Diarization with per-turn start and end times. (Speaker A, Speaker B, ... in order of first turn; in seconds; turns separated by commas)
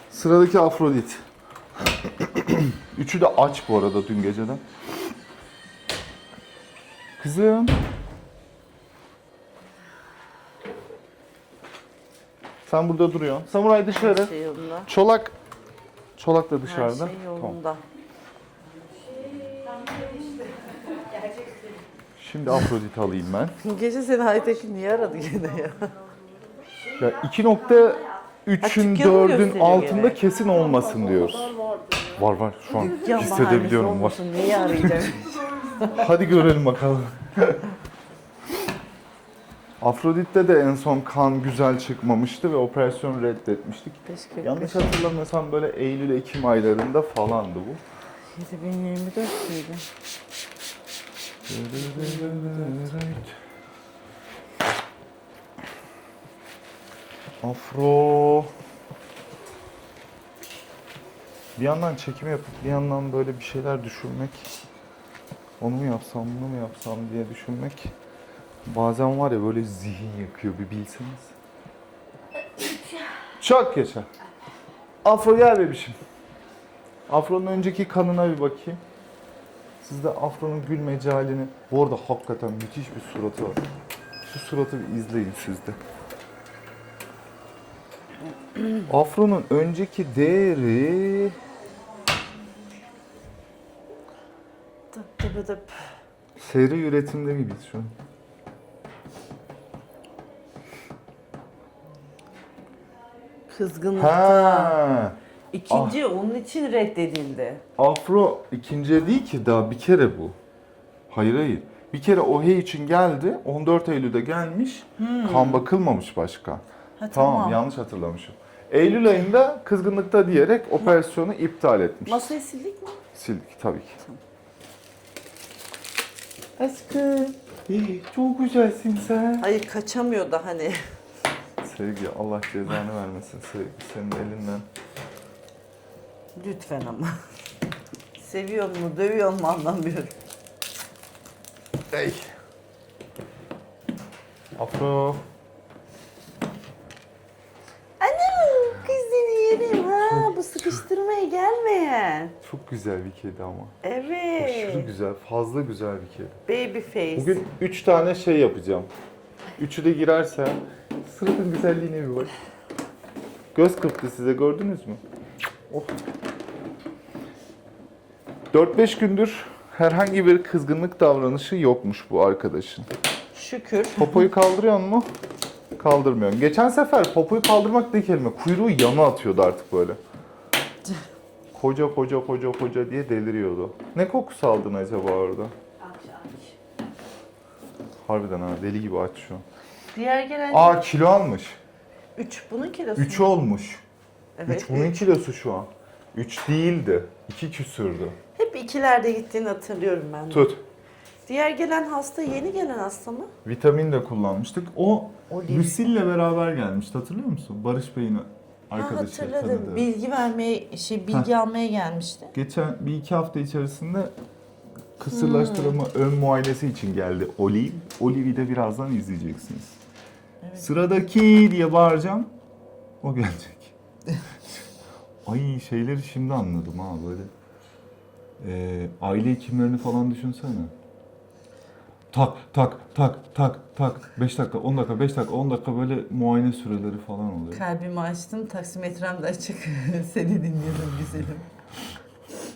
Speaker A: 0.1-1.2, Speaker A: 2.0-4.6, Speaker A: 7.2-7.8, Speaker A: 12.7-14.3, Speaker B: 13.9-14.9, Speaker A: 14.9-15.3, Speaker A: 16.2-17.6, Speaker B: 16.6-17.8, Speaker C: 19.4-21.6, Speaker A: 22.2-23.6, Speaker B: 23.6-26.0, Speaker A: 27.0-31.6, Speaker B: 28.6-30.2, Speaker C: 30.5-32.1, Speaker A: 32.1-34.9, Speaker B: 32.7-36.1, Speaker A: 35.8-37.6, Speaker A: 39.8-47.8, Speaker B: 44.1-45.0, Speaker B: 48.3-49.9, Speaker A: 51.5-53.3, Speaker B: 51.8-52.9, Speaker A: 57.4-58.5, Speaker A: 61.6-64.5, Speaker A: 65.6-67.9, Speaker A: 68.7-71.3, Speaker A: 73.4-74.1, Speaker A: 75.0-76.0, Speaker A: 77.1-78.8, Speaker A: 79.8-83.6, Speaker A: 84.3-85.8, Speaker A: 88.9-91.4, Speaker B: 94.9-95.8, Speaker A: 96.4-97.9, Speaker B: 103.5-104.8, Speaker A: 103.9-105.2, Speaker B: 105.5-107.6, Speaker A: 105.7-106.0, Speaker A: 107.8-110.3, Speaker A: 111.1-122.3, Speaker B: 115.0-115.7, Speaker B: 117.0-117.6, Speaker B: 122.1-123.0, Speaker A: 123.1-124.0, Speaker A: 126.6-129.5, Speaker B: 129.4-130.8, Speaker A: 131.6-134.7, Speaker B: 136.4-137.1, Speaker B: 138.2-140.1, Speaker A: 141.9-142.3, Speaker A: 144.6-145.2, Speaker B: 148.0-152.4, Speaker A: 150.0-150.8, Speaker A: 152.4-153.7, Speaker B: 153.8-154.9, Speaker A: 154.4-156.4, Speaker B: 156.5-157.4, Speaker A: 157.2-158.9, Speaker A: 159.6-162.3, Speaker A: 163.5-165.0, Speaker A: 165.7-166.0, Speaker A: 168.5-172.9, Speaker B: 173.3-174.2, Speaker A: 174.0-175.1, Speaker A: 175.8-180.0, Speaker A: 181.5-185.5, Speaker C: 185.8-186.5, Speaker A: 188.0-189.4, Speaker B: 189.9-190.9, Speaker A: 190.5-191.6, Speaker B: 192.2-193.5, Speaker A: 193.0-193.8, Speaker B: 194.4-195.1, Speaker A: 194.5-198.2, Speaker B: 198.3-200.5, Speaker A: 200.3-200.6, Speaker B: 201.3-203.3, Speaker A: 203.4-209.9, Speaker B: 205.3-205.9, Speaker B: 208.7-212.3, Speaker A: 212.3-214.1, Speaker A: 215.0-219.8, Speaker B: 215.1-215.8, Speaker B: 220.4-220.9, Speaker A: 220.6-222.3, Speaker A: 223.0-223.7, Speaker A: 225.2-227.3, Speaker A: 228.4-230.7, Speaker A: 232.1-237.6, Speaker B: 237.5-241.5